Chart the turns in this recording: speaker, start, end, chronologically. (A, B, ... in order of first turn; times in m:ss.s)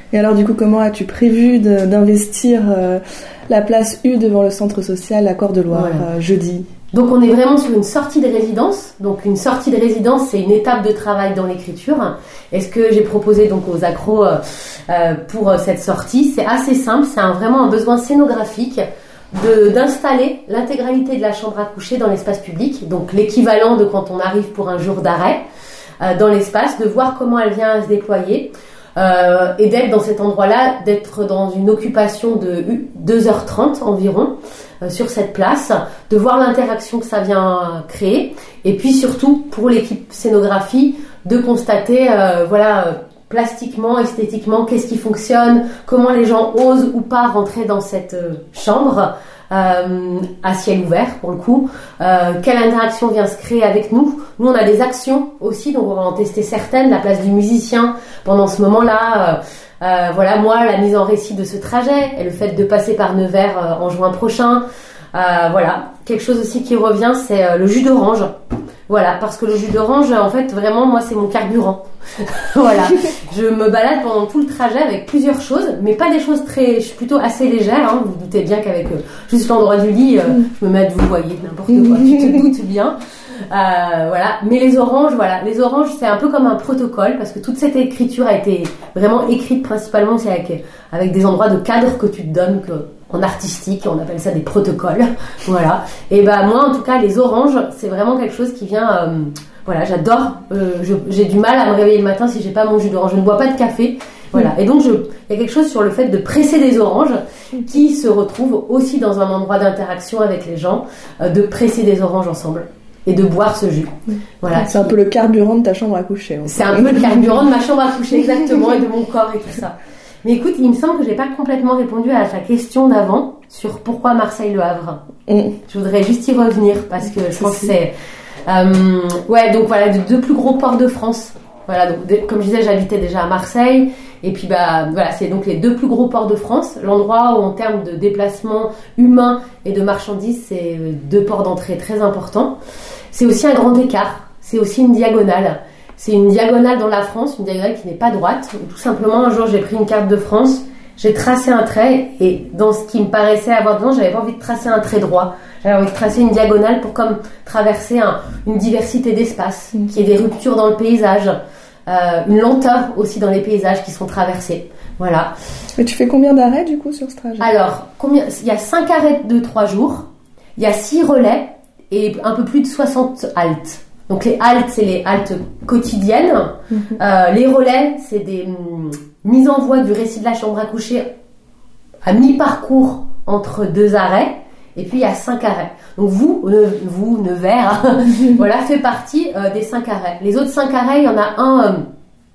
0:00.1-0:06.7 A
0:05.7-0:06.1 B
0:06.9-0:25.4 B
0:26.0-1:08.3 B
1:08.9-1:23.0 B
1:21.7-1:22.5 A
1:23.5-1:55.0 B
1:54.5-1:57.2 A
1:56.4-2:05.0 B
2:05.3-2:05.6 A
2:05.7-2:07.9 B
2:08.5-2:22.6 B
2:23.1-2:41.4 B
2:41.9-2:45.3 B
2:45.8-2:47.5 A
2:47.4-3:01.1 B
3:02.0-3:11.8 B